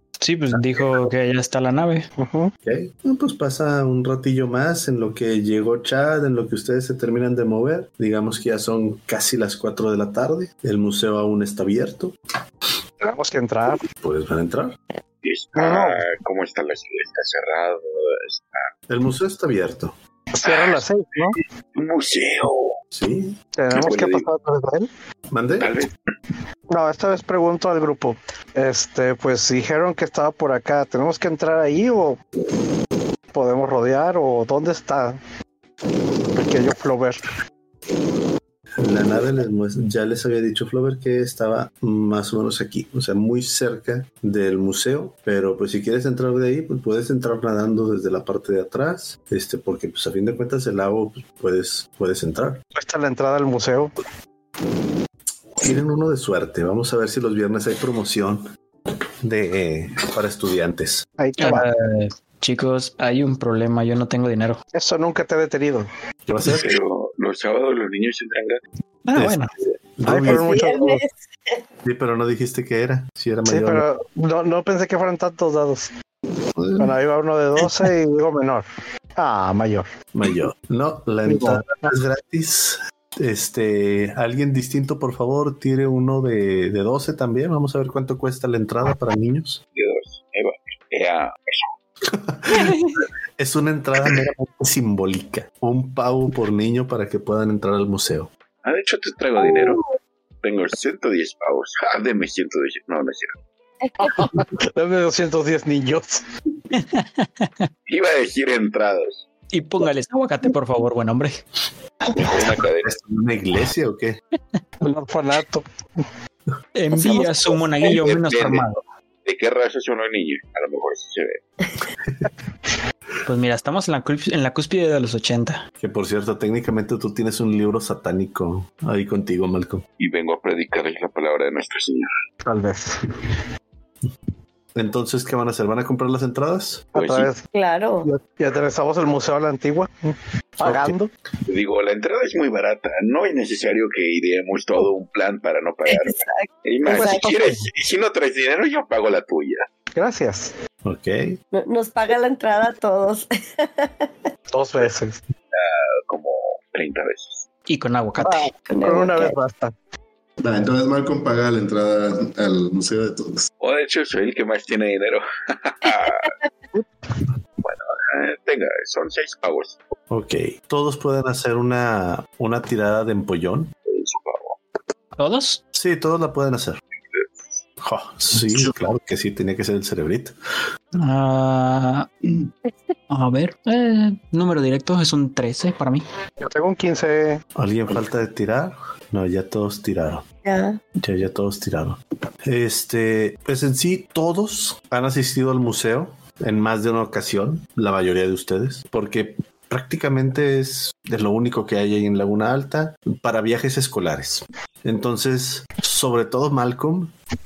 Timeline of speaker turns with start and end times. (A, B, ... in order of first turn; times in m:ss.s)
0:00.2-0:02.1 A
0:02.2-0:02.5 B
0:02.6-0:12.2 C
0:13.0-0:13.8 B
0:13.9-0:14.8 C
0:15.2-0:18.7 D
0:15.6-0:16.0 B
0:18.9-0:20.0 C
0:20.3-0:21.4 B
0:20.4-0:22.7 D
0:22.9-0:23.4 C
0:23.6-0:24.9 B
0:23.7-0:24.3 D
0:25.3-0:25.7 C
0:25.6-0:25.9 D
0:26.7-0:32.2 B
0:33.3-0:35.2 B
0:36.3-0:37.2 B
0:38.8-0:52.6 C
0:52.7-0:54.0 B
0:55.6-0:58.5 C
0:59.2-1:01.1 C
1:01.2-1:01.7 B
1:01.4-1:04.6 A
1:04.7-1:05.9 B
1:06.3-1:06.7 C
1:06.5-1:08.6 D
1:09.1-1:09.5 A
1:09.2-1:10.5 C
1:10.0-1:11.0 B
1:10.3-1:11.1 E
1:11.8-1:13.8 C
1:13.5-1:15.9 B
1:16.6-1:17.0 C
1:16.8-1:19.9 B
1:20.1-1:29.6 C
1:21.3-1:21.9 B
1:29.8-1:31.7 D
1:32.1-1:38.3 C
1:32.5-1:33.0 A
1:38.6-1:39.8 D
1:40.4-1:43.4 D
1:43.8-1:44.3 E
1:44.0-1:46.2 B
1:46.7-1:47.7 A
1:47.9-1:49.2 D
1:49.5-1:51.4 A
1:52.1-1:52.9 D
1:52.8-1:54.2 C
1:54.8-1:56.0 B
1:56.8-1:58.8 A
1:56.9-1:57.6 E
1:57.8-2:01.4 D
2:03.3-2:05.6 A
2:05.8-2:09.8 C
2:10.0-2:12.1 D
2:12.4-2:13.2 B
2:14.8-2:16.9 C
2:16.9-2:17.4 B
2:17.0-2:17.3 D
2:17.5-2:18.1 E
2:18.0-2:21.1 B
2:20.6-2:20.9 C
2:21.5-2:29.7 D
2:25.9-2:27.3 E
2:26.8-2:27.7 B
2:30.0-2:30.5 B
2:30.8-2:31.4 C
2:31.5-2:34.1 E
2:34.5-2:35.2 B
2:35.5-2:37.5 D
2:37.7-2:38.5 A
2:38.2-2:39.7 B
2:38.6-2:39.4 E
2:40.4-2:43.5 F
2:43.6-2:46.3 D
2:47.6-2:49.8 D
2:50.1-2:53.7 C
2:53.9-2:54.6 D
2:55.2-2:55.6 A
2:55.7-2:56.8 C
2:57.1-2:57.4 D
2:57.8-3:00.3 C
3:01.0-3:02.1 A
3:03.1-3:06.0 A
3:06.4-3:07.4 B
3:07.6-3:10.2 C
3:10.4-3:10.8 E
3:11.0-3:27.1 C